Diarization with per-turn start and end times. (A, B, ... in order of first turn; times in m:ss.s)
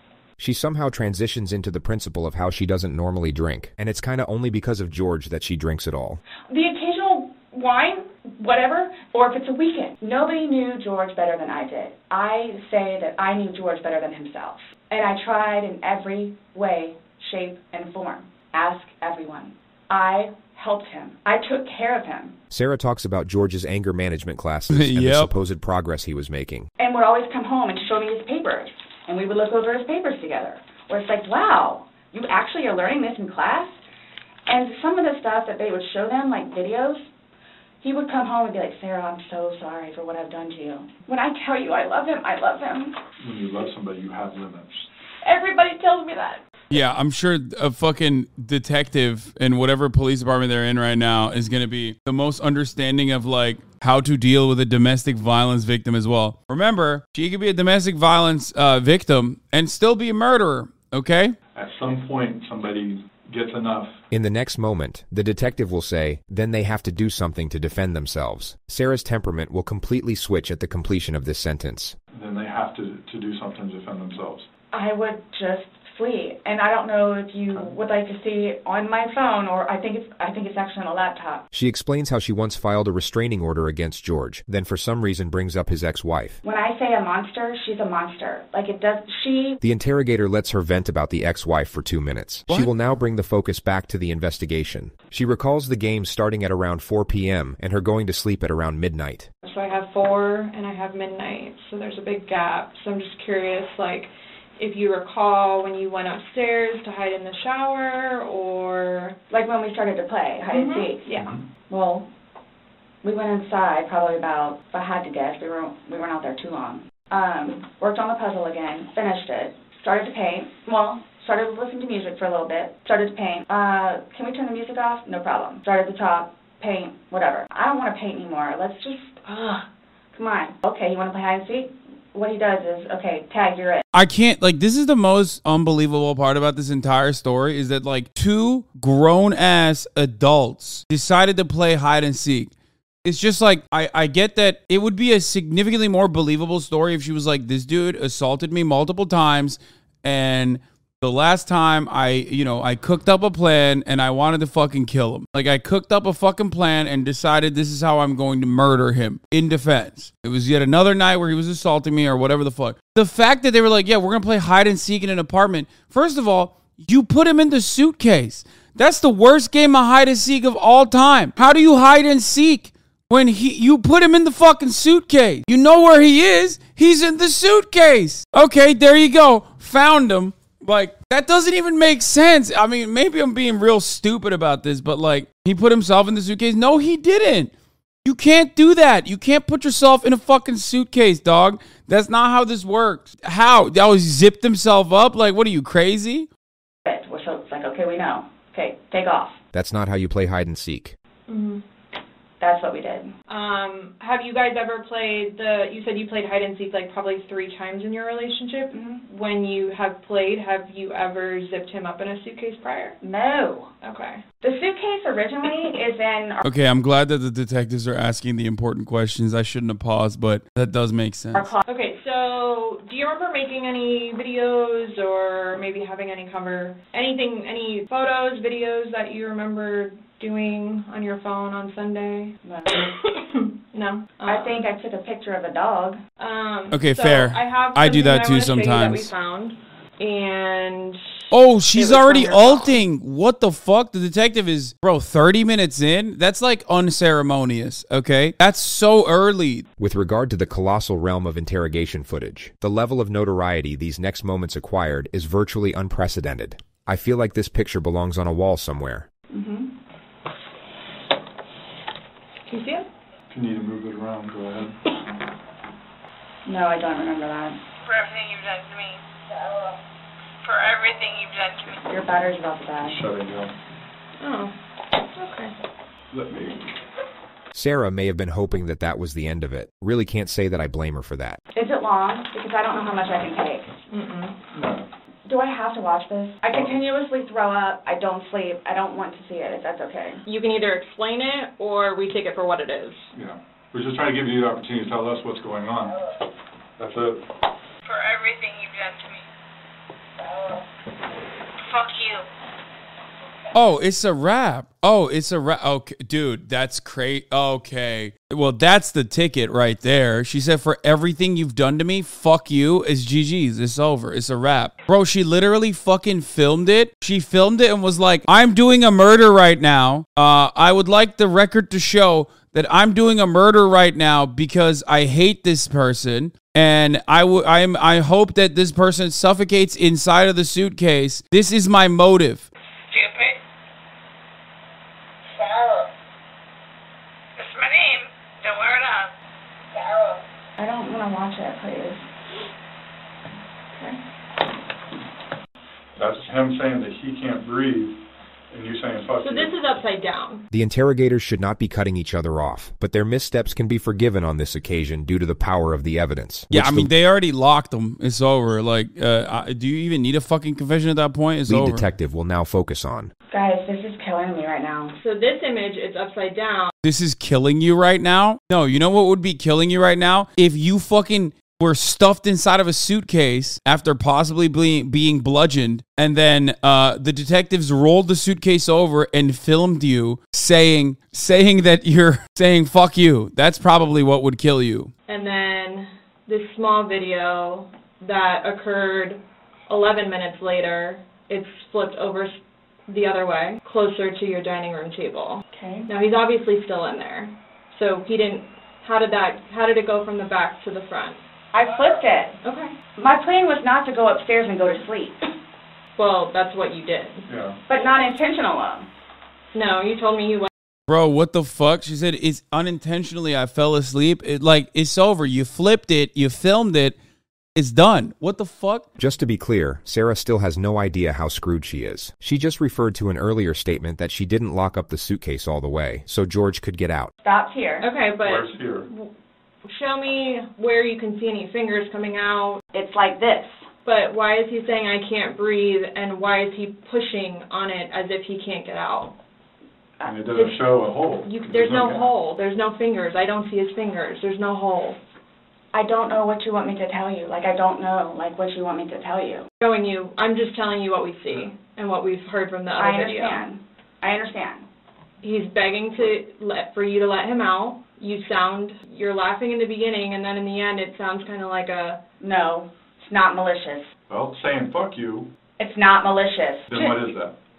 0:00.4-0:06.2 A
0:06.5-0:22.3 B
0:22.5-0:26.7 A
0:24.7-0:25.3 C
0:26.8-0:33.8 B
0:34.5-0:37.1 B
0:37.8-0:43.0 B
0:43.2-0:44.8 D
0:45.2-0:46.4 B
0:46.7-1:01.4 C
1:01.5-1:03.9 D
1:04.1-1:12.0 A
1:12.1-1:14.4 D
1:14.7-1:21.4 B
1:21.5-1:26.4 A
1:26.4-1:29.6 B
1:29.6-1:39.3 A
1:39.4-1:49.2 E
1:49.3-1:51.1 B
1:50.5-1:51.3 E
1:51.2-1:51.4 D
1:51.7-1:52.0 B
1:53.0-2:13.8 B
2:13.9-2:22.5 C
2:23.0-3:07.5 C
3:08.0-3:16.3 C
3:16.8-3:19.4 B
3:19.5-3:21.0 A
3:21.3-3:21.6 E
3:22.4-3:23.1 B
3:23.3-3:33.0 E
3:28.7-3:29.0 B
3:33.0-3:33.7 B
3:33.8-3:34.2 E
3:34.4-3:36.4 B
3:36.4-3:41.5 C
3:41.3-3:41.6 B
3:41.7-3:54.6 E
3:52.4-3:52.9 B
3:54.3-3:56.0 B
3:56.2-4:01.1 E
3:56.7-3:59.1 C
4:01.3-4:09.6 C
4:01.7-4:02.8 B
4:09.8-4:19.1 A
4:19.3-4:19.7 B
4:22.5-4:22.9 E
4:23.3-4:24.7 D
4:26.4-4:27.6 B
4:27.8-4:29.8 F
4:30.4-4:31.8 F
4:31.9-4:33.0 B
4:32.8-4:33.5 D
4:34.2-4:34.5 E
4:35.2-4:35.5 E
4:36.1-4:36.6 D
4:37.5-4:41.4 A
4:41.5-4:43.6 B
4:43.9-4:44.4 E
4:44.5-4:44.9 D
4:45.2-4:50.2 B
4:50.2-4:53.1 E
4:53.1-4:55.9 D
4:56.8-4:57.2 D
4:57.8-4:59.2 F
5:00.2-5:00.6 F
5:01.6-5:02.2 F
5:03.5-5:32.4 C
5:32.9-5:33.4 F
5:35.3-5:35.9 F
5:37.4-5:39.1 F
5:39.7-5:40.2 F
5:40.6-5:42.0 B
5:46.0-5:48.0 D
5:48.5-5:49.6 D
5:49.2-5:50.4 E
5:50.5-5:56.9 A
5:56.5-6:01.9 C
6:01.5-6:03.1 A
6:03.3-6:05.0 B
6:05.0-6:06.7 E
6:06.8-6:24.9 C
6:25.1-6:32.4 E
6:32.9-6:41.2 E
6:35.5-6:35.9 B
6:41.5-6:42.4 B
6:42.4-6:42.7 E
6:43.0-6:45.2 B
6:46.0-6:47.3 E
6:47.3-6:47.6 D
6:47.7-6:48.9 B
6:49.5-6:50.5 E
6:50.9-6:57.0 C
6:57.6-6:58.8 C
6:59.0-7:07.1 A
7:07.2-7:07.9 B
7:07.8-7:09.1 E
7:08.2-7:08.9 D
7:09.6-7:12.6 E
7:12.7-7:13.6 B
7:13.8-7:19.1 E
7:20.0-7:20.5 B
7:20.0-7:22.1 D
7:21.2-7:25.0 E
7:25.7-7:29.4 B
7:29.6-7:33.4 E
7:32.8-7:34.6 B
7:35.2-7:42.0 E
7:42.2-7:43.9 B
7:44.1-7:45.3 D
7:45.6-7:47.0 B
7:46.7-7:47.3 D